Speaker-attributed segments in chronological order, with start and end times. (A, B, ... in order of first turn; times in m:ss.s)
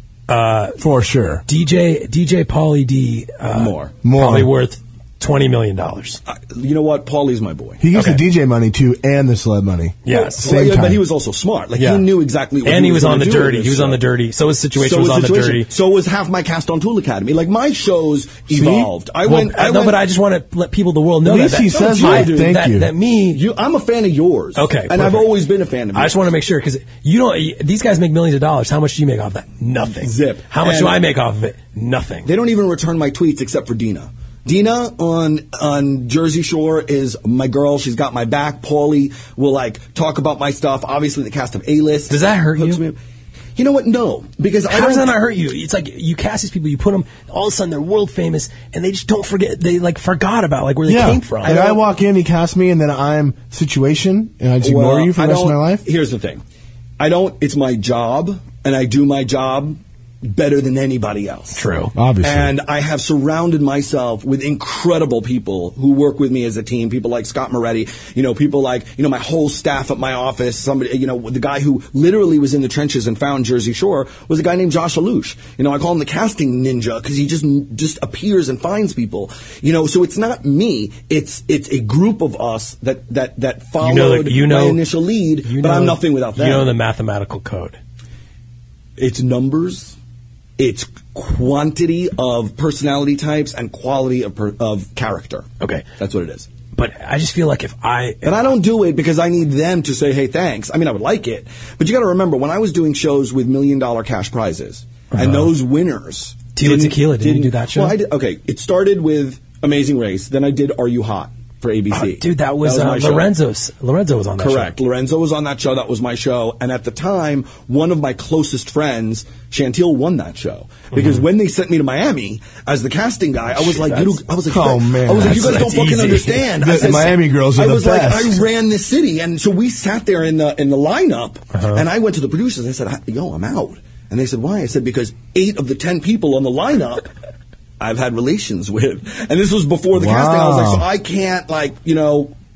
0:00.3-0:00.8 A
0:00.8-0:01.4 B
0:01.5-0:06.2 A
0:03.5-0:04.0 C
0:04.0-0:04.5 B
0:06.3-0:07.8 C
0:07.8-0:11.0 B
0:07.9-0:08.2 A
0:10.0-0:10.6 A
0:10.1-0:14.0 C
0:11.8-0:12.0 B
0:12.6-0:15.7 A
0:14.8-0:20.0 C
0:18.5-0:18.9 B
0:19.2-0:23.4 A
0:21.2-0:22.9 B
0:21.7-0:22.7 C
0:23.3-0:26.2 C
0:24.5-0:32.3 A
0:30.0-0:31.0 C
0:32.2-0:43.0 C
0:42.1-0:42.8 A
0:43.6-0:45.1 C
0:44.7-0:51.6 A
0:50.8-0:55.8 B
0:51.4-0:51.9 C
0:54.6-0:56.4 C
0:57.0-1:01.6 C
1:01.5-1:01.9 A
1:01.9-1:02.5 B
1:02.2-1:26.7 C
1:23.8-1:27.8 A
1:29.0-1:30.0 C
1:30.6-1:36.5 C
1:35.6-1:35.8 A
1:36.7-1:38.6 A
1:38.2-1:53.3 C
1:45.1-1:45.6 A
1:46.5-1:48.0 A
1:51.9-1:54.8 A
1:54.4-2:17.1 C
2:00.9-2:01.2 A
2:03.5-2:04.3 A
2:04.5-2:05.7 B
2:05.1-2:07.1 A
2:06.5-2:08.4 B
2:11.5-2:11.8 A
2:17.8-2:22.3 C
2:19.9-2:20.8 B